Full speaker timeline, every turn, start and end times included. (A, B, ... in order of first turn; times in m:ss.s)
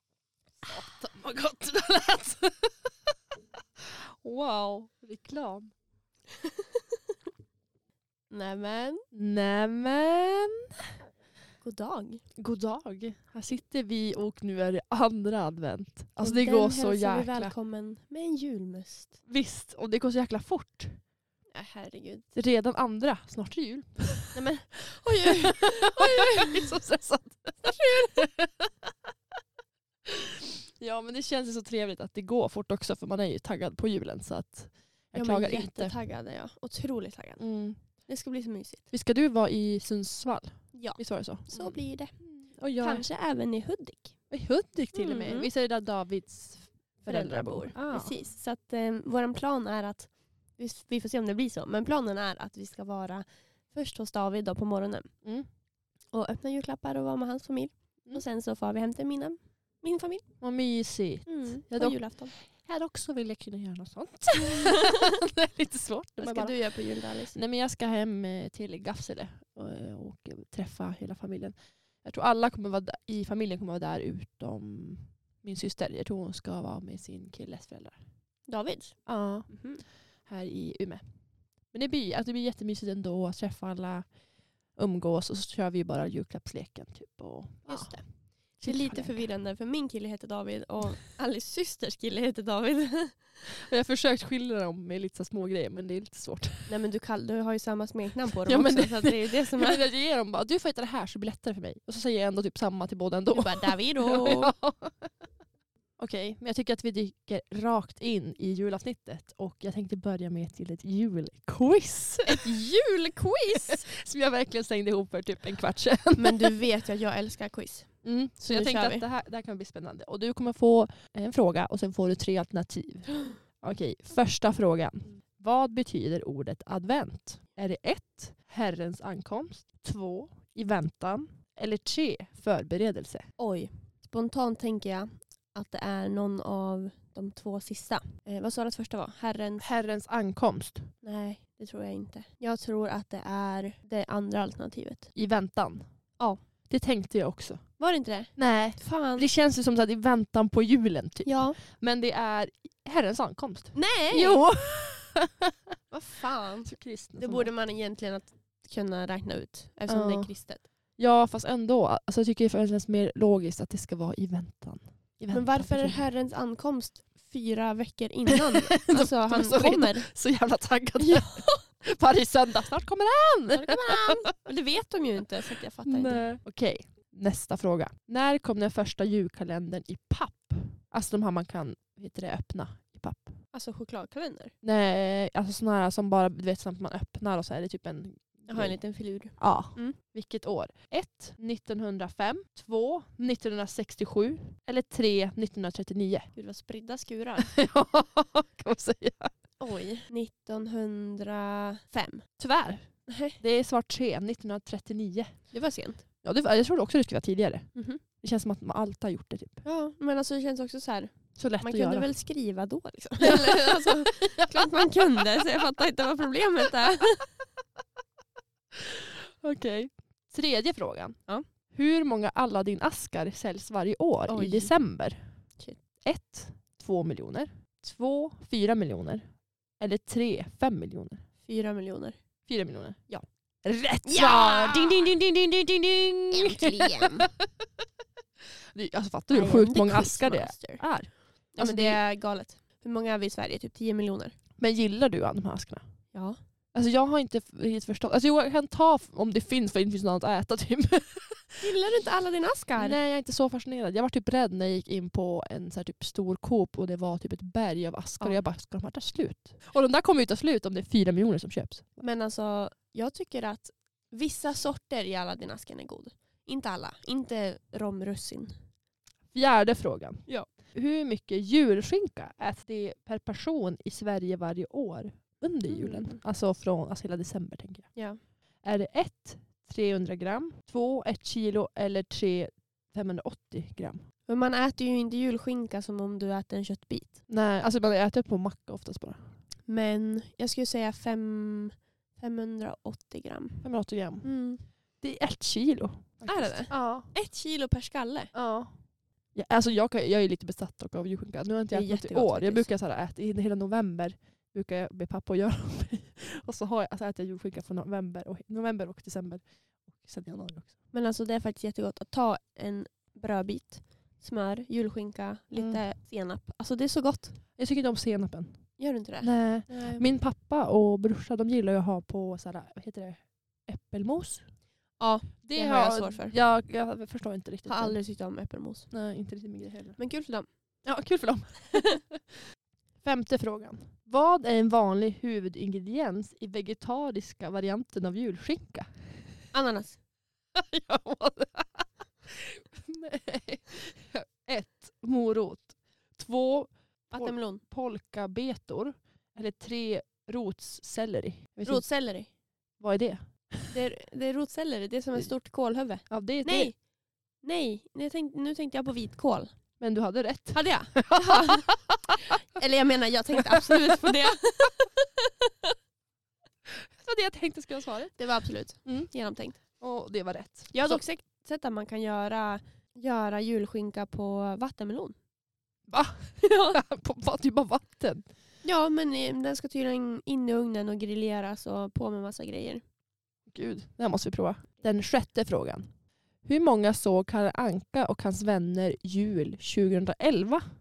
0:00.6-0:03.1 A
0:03.8-0:05.7 A
0:06.4-0:06.8 B
0:08.3-0:09.0 B
0:09.1-0:10.7 A
0:11.6-0:12.2 B
0:12.4-0:17.5 A
0:16.2-0:19.2 B
0:19.3-0:21.0 A
0:21.5-0:22.3 B
0:22.4-0:28.9 A
0:24.3-0:26.7 B
0:27.6-0:28.2 B
0:30.1-0:36.0 A
0:35.1-0:38.8 B
0:37.4-0:37.8 A
0:38.9-0:43.0 A
0:40.7-0:42.2 B
0:42.7-0:44.2 B
0:44.3-0:48.1 A
0:44.9-0:45.5 B
0:47.1-0:55.1 B
0:56.1-1:00.3 B
1:00.4-1:18.0 A
1:01.3-1:02.3 B
1:04.6-1:04.9 B
1:06.2-1:07.4 B
1:18.5-1:19.8 B
1:19.1-1:21.0 A
1:21.7-1:24.1 A
1:24.7-1:29.3 A
1:27.7-1:33.3 B
1:33.5-1:36.8 A
1:36.7-1:39.8 B
1:38.3-1:45.1 A
1:43.3-1:44.5 B
1:46.0-1:52.6 A
1:52.3-1:53.9 B
1:53.6-1:56.6 A
1:56.2-1:59.1 B
1:58.0-2:13.3 A
2:13.4-2:19.7 B
2:19.6-2:20.9 A
2:21.0-2:25.1 B
2:25.2-2:25.8 A
2:26.7-2:27.7 A
2:27.8-2:29.3 B
2:28.4-2:35.5 A
2:31.2-2:31.6 B
2:33.7-2:34.5 B
2:35.9-2:40.6 B
2:36.7-2:37.5 A
2:39.9-2:40.3 A
2:41.0-2:46.0 A
2:45.3-2:50.1 B
2:48.3-2:54.2 A
2:51.0-2:51.7 B
2:53.5-2:56.3 B
2:55.8-3:03.4 A
3:03.5-3:04.5 B
3:04.6-3:08.8 A
3:08.5-3:10.0 B
3:09.4-3:16.3 A
3:16.4-3:17.5 B
3:17.4-3:19.3 A
3:19.6-3:22.3 B
3:22.4-3:25.4 A
3:23.1-3:23.4 B
3:25.5-3:26.0 B
3:26.2-3:29.6 A
3:27.8-3:28.0 B
3:29.6-3:37.3 B
3:31.4-3:32.1 A
3:33.2-3:35.4 A
3:38.7-3:41.2 A
3:41.7-3:45.2 A
3:44.3-3:44.7 B
3:46.0-3:49.2 A
3:49.8-3:51.2 A
3:51.4-3:52.2 B
3:52.5-3:53.0 A
3:53.6-3:57.5 A
3:54.0-3:55.1 B
3:56.3-3:57.3 B
3:58.7-4:02.0 A
3:59.3-4:00.8 B
4:01.6-4:04.4 B
4:04.6-4:05.8 A
4:06.1-4:06.4 B
4:06.7-4:11.8 A
4:11.6-4:13.0 B
4:12.8-4:22.0 A
4:22.0-4:28.5 B
4:29.3-4:37.9 A
4:35.7-4:36.2 B
4:38.0-4:38.2 B
4:38.6-4:44.0 A
4:44.3-4:47.2 B
4:47.3-4:49.3 A
4:49.7-4:53.7 B
4:53.6-4:54.4 A
4:54.2-4:54.6 B
4:55.0-4:57.1 A
4:56.2-4:58.3 B
4:58.3-4:58.8 A
4:59.3-5:10.8 A
5:01.7-5:02.7 B
5:10.9-5:17.4 B
5:15.6-5:15.8 A
5:17.6-5:24.4 A
5:18.8-5:20.1 B
5:25.0-5:26.4 B
5:25.4-5:28.0 A
5:27.7-5:28.9 B
5:28.9-5:30.0 A
5:30.0-5:30.5 B
5:30.8-5:32.2 A
5:33.0-5:39.3 A
5:39.5-5:40.0 B
5:40.5-5:51.9 A
5:47.1-5:47.6 B
5:51.6-5:52.3 B
5:52.8-5:53.7 A
5:53.7-5:56.8 B
5:56.1-5:56.7 A
5:57.4-5:59.5 B
5:59.8-6:02.2 A
6:00.5-6:05.7 B
6:03.4-6:04.4 A
6:06.7-6:08.2 A
6:08.2-6:09.6 B
6:08.8-6:09.1 A
6:09.6-6:11.0 A
6:10.7-6:15.2 B
6:15.9-6:18.3 A
6:16.4-6:16.8 B
6:18.6-6:22.8 B
6:23.5-6:25.9 A
6:26.4-6:30.6 A